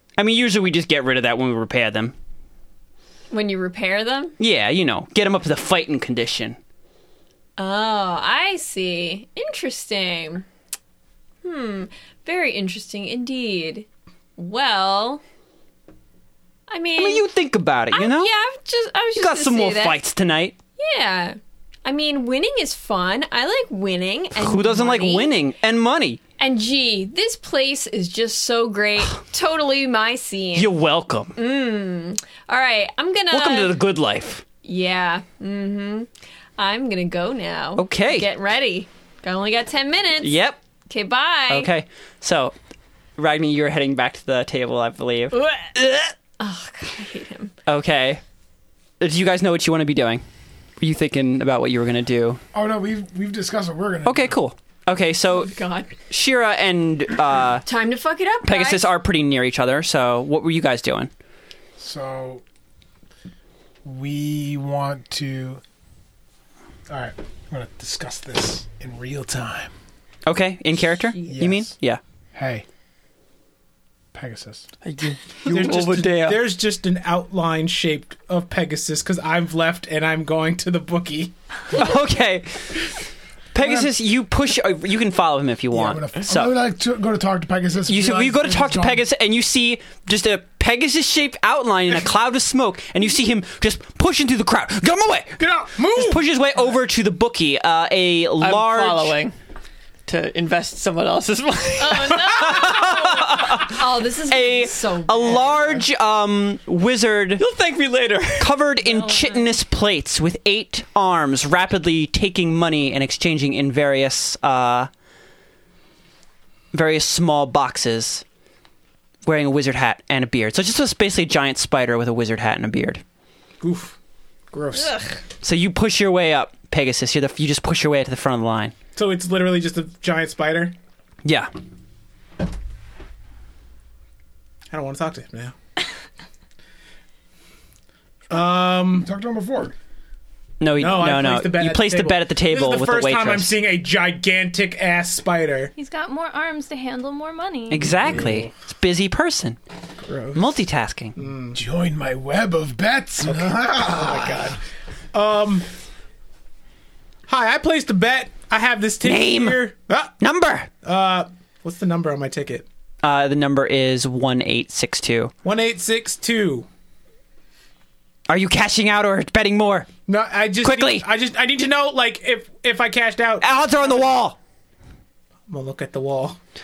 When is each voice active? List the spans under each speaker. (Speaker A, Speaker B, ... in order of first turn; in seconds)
Speaker A: 0.2-2.1, 4.4-6.6, 17.0-18.3, 19.1-20.6, 24.4-26.2, 30.6-31.4, 33.3-34.4, 37.8-38.3, 40.2-40.6, 41.5-42.5, 43.2-46.1, 47.7-48.2, 49.0-50.2, 50.8-52.4, 54.0-55.6, 56.1-57.6, 58.4-61.1, 70.3-72.0, 81.8-82.9, 83.5-86.5, 87.9-99.2, 102.3-107.4, 108.4-114.9, 116.7-118.2, 119.2-123.0, 125.4-128.7, 131.2-131.5, 140.6-143.6, 147.7-149.6, 150.3-151.2, 159.0-159.6, 160.2-160.7, 163.0-165.3, 168.3-169.9, 170.6-171.1, 173.4-174.4
Speaker B: 3.3-4.3, 7.6-10.5, 11.4-15.2, 16.7-17.3, 17.9-20.0, 20.8-25.4, 26.4-30.7, 31.4-33.8, 34.6-41.7, 45.3-45.7, 46.4-47.5, 55.3-55.9, 57.6-58.9, 101.8-105.8
Speaker C: 52.5-54.4, 61.8-62.4, 63.8-65.6, 66.9-69.7, 71.2-71.8, 72.3-72.7, 74.1-74.7, 83.6-83.9, 85.7-89.0, 138.9-139.8, 148.0-148.5, 151.5-154.6
Speaker D: 74.8-76.5, 98.4-99.3, 100.1-102.2, 107.4-108.5
Speaker E: 75.4-81.3, 95.4-96.2, 123.6-124.0, 124.5-125.2, 129.0-130.8, 134.7-135.6, 138.3-139.1, 140.8-145.7, 150.0-150.4, 151.2-151.6, 153.2-154.6, 155.1-155.7, 157.3-160.2, 160.8-162.7, 165.4-166.7, 170.1-173.4, 175.5-176.4
Speaker F: 108.8-109.5, 145.8-148.0